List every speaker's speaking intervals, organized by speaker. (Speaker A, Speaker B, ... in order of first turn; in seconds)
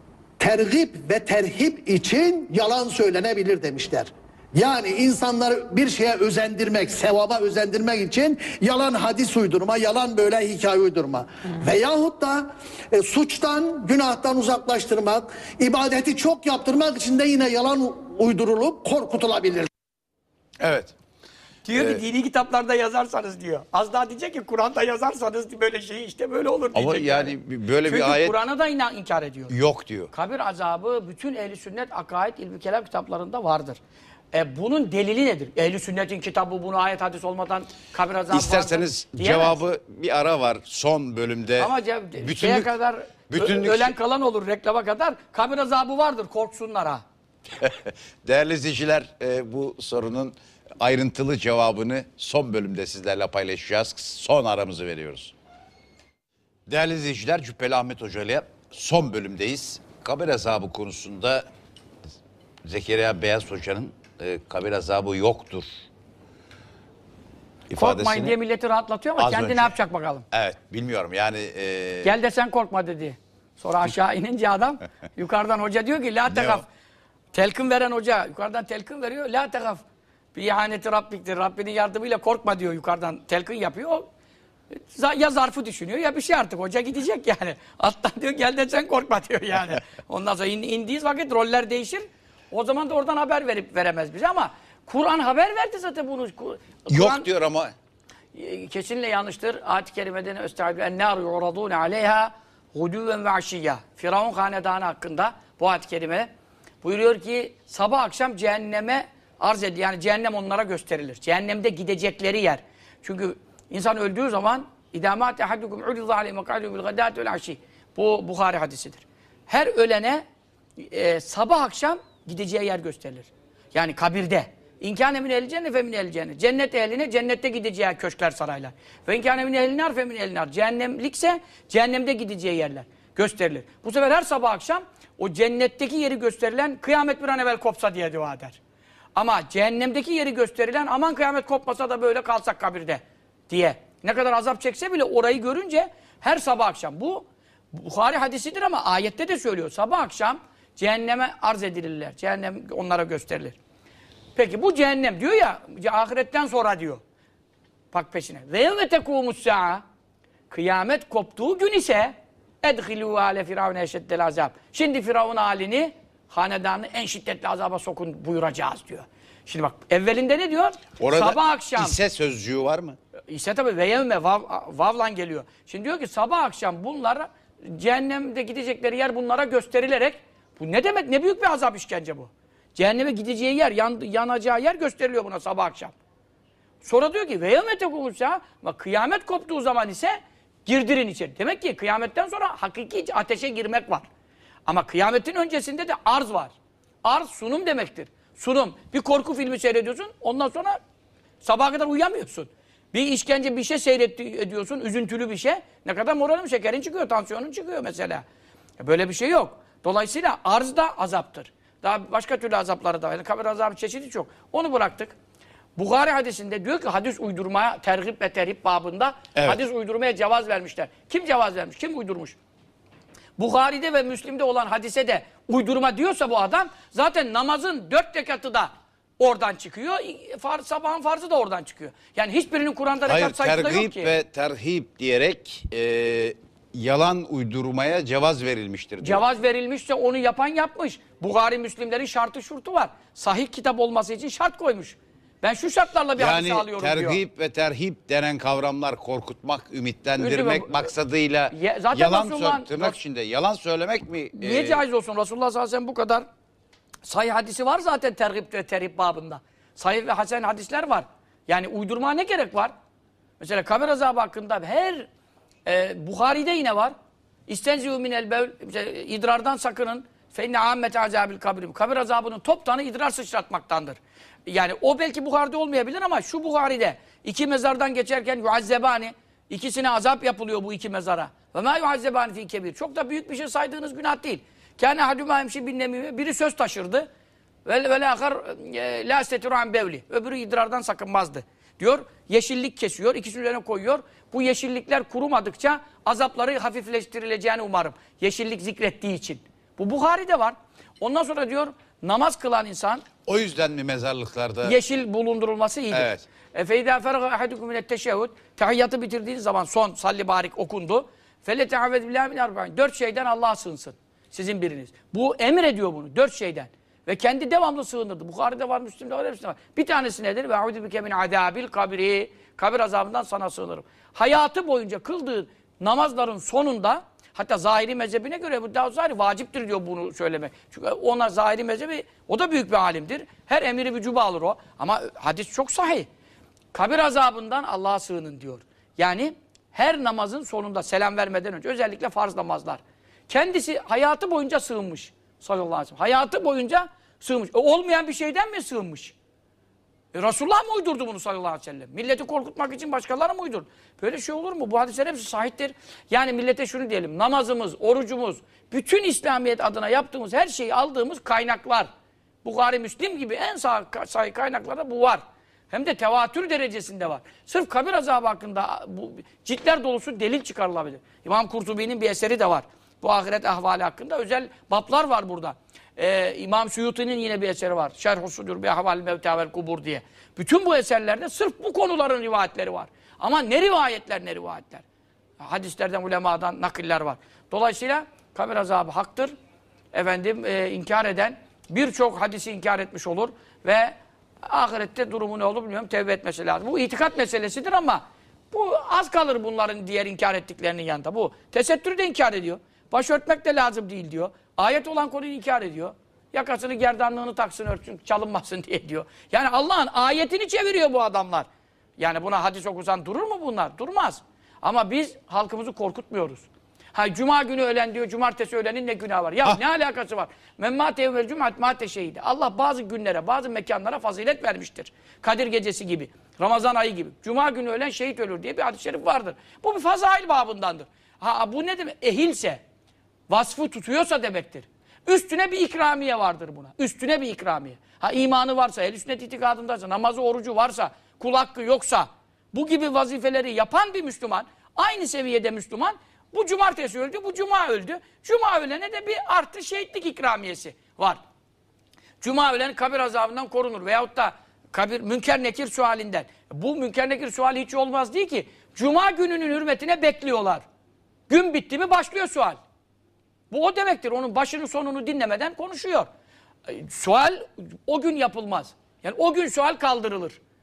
Speaker A: 0.4-19.7
Speaker B: 20.6-20.9, 21.8-22.0, 26.7-28.4, 29.5-30.1, 38.3-42.7, 43.3-43.9, 47.6-55.3, 56.7-61.5, 62.6-65.7, 67.7-68.4, 69.2-69.7, 70.3-72.1, 76.3-76.6, 96.9-97.7, 171.0-173.0, 233.1-239.2, 246.2-254.8, 303.3-304.8, 305.9-306.2
Speaker C: 21.6-29.5, 30.1-33.8, 34.3-39.6, 41.6-47.0, 67.7-70.2, 72.0-76.7, 77.3-79.8, 80.3-84.1, 84.9-97.3, 98.3-106.3, 106.8-120.2, 120.9-138.6, 139.2-153.6, 154.4-157.0, 157.9-159.8, 160.5-172.0, 173.3-185.9, 186.8-194.1, 194.7-200.8, 201.4-208.2, 208.8-215.1, 215.8-222.4, 223.4-234.2, 239.0-247.2, 250.2-250.9, 251.5-253.0, 254.4-256.2, 257.1-262.7, 263.4-265.1, 265.7-266.9, 267.5-287.1, 287.6-303.1, 304.6-336.1, 336.7-349.1, 350.1-361.9, 362.4-384.9, 385.4-389.3, 389.9-411.5, 412.0-432.6, 433.3-451.2, 452.2-460.6, 461.3-462.6, 463.5-466.1, 466.7-470.4